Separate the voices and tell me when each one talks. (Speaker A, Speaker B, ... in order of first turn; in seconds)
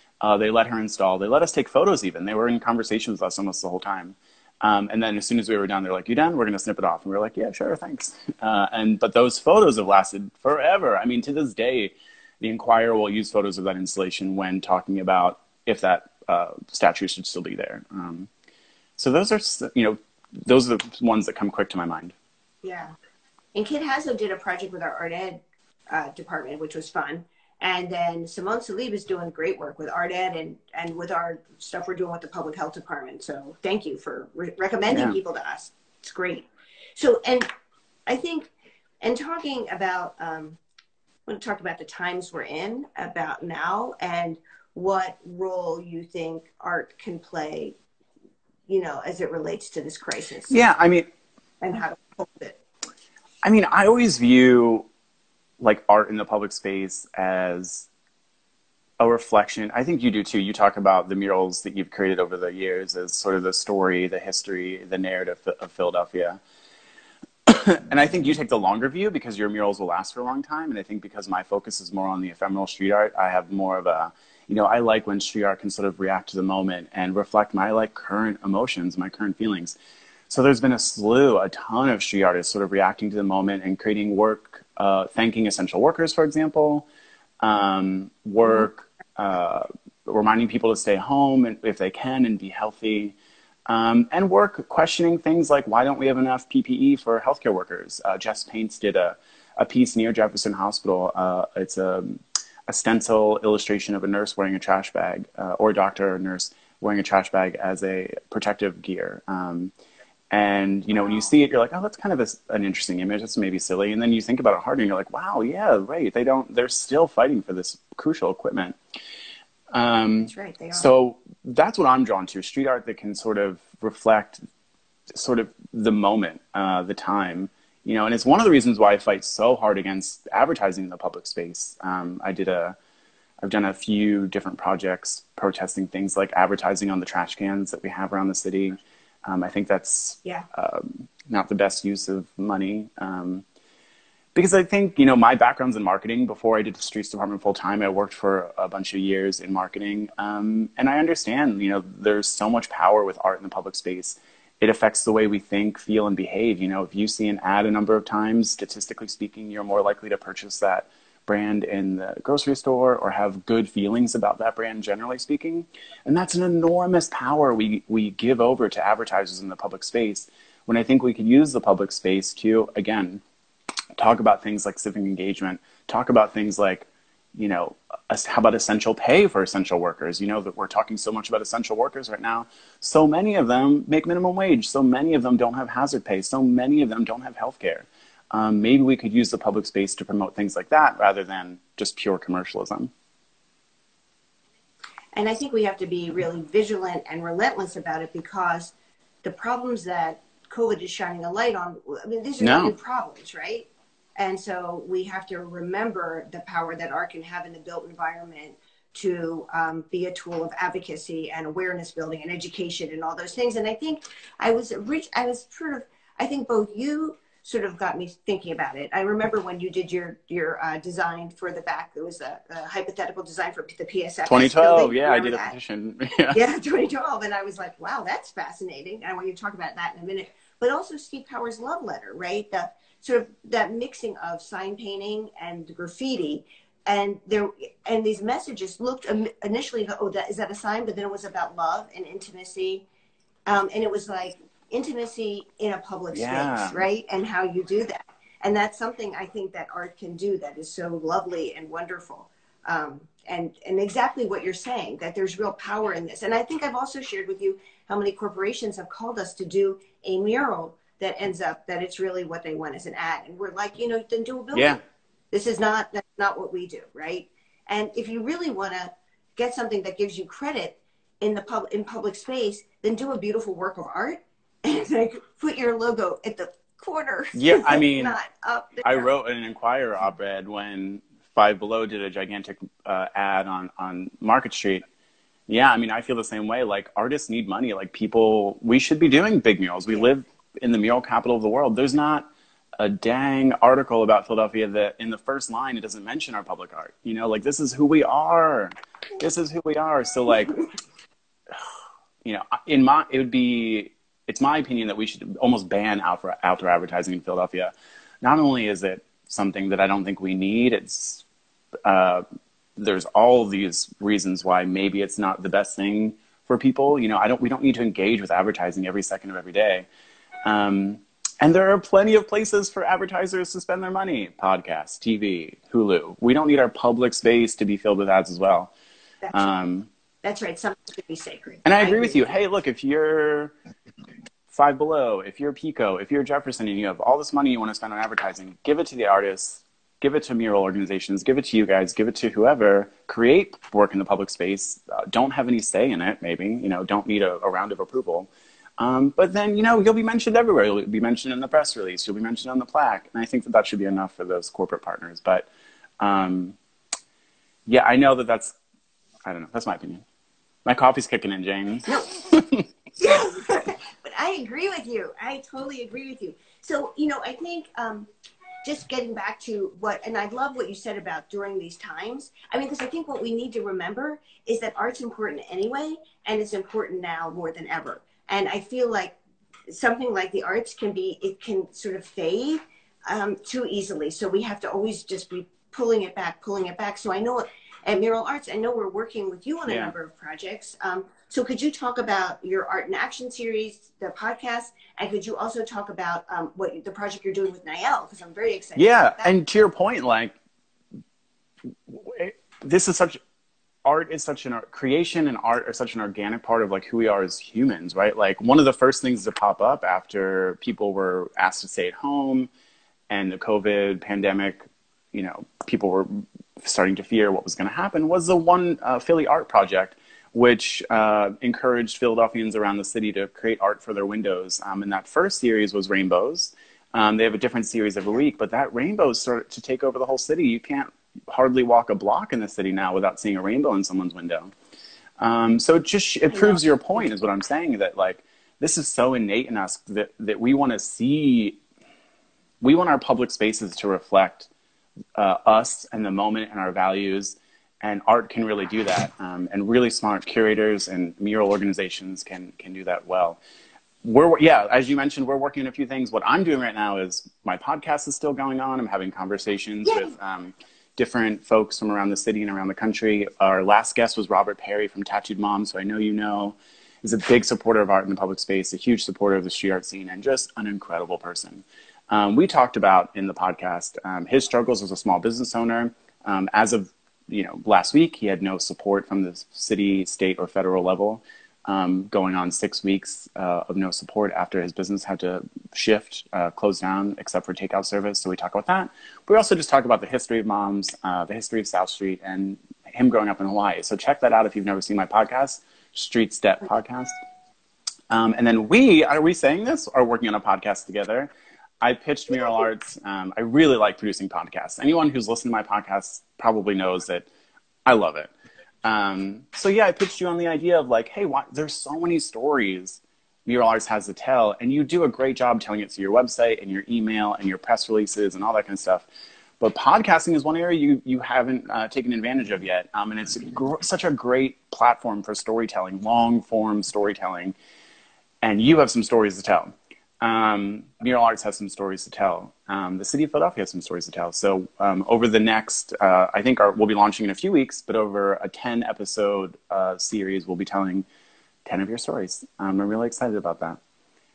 Speaker A: 0.2-18.3, 19.0-22.1, 34.9-35.2, 50.5-51.1, 53.4-54.9, 55.6-57.9, 59.0-66.4, 67.5-79.8, 80.3-86.9, 87.4-93.1, 93.7-109.7, 110.3-118.8, 119.7-124.4, 125.1-132.7, 133.4-143.4, 144.3-173.2, 174.0-192.9, 202.4-202.7, 224.2-226.4, 246.1-246.8, 264.5-264.8, 277.3-278.2, 278.8-284.8, 285.5-300.6, 302.2-311.2, 311.8-312.2, 312.8-319.9, 320.4-328.7, 329.3-329.9, 331.6-333.5, 334.5-355.5, 356.0-356.6, 357.7-358.5, 359.2-360.0, 360.6-362.6, 389.7-389.9, 398.8-400.3, 401.9-403.2, 403.8-412.5, 413.1-434.5, 435.2-441.6, 442.6-444.5, 445.1-453.4, 454.0-497.2, 498.1-501.3, 501.8-507.3, 507.8-508.3, 508.8-519.0, 519.6-527.5, 528.4-541.0, 541.6-543.8
Speaker B: 22.6-22.9, 23.5-37.5, 38.1-38.5, 39.0-40.6, 41.3-47.8, 48.7-50.6, 51.6-52.6, 120.2-120.9, 195.1-198.7, 199.2-225.5, 226.3-242.8, 243.5-264.8, 265.3-279.1, 329.2-329.5, 330.2-332.3, 363.0-368.1, 368.6-379.2, 379.7-399.3, 436.3-436.6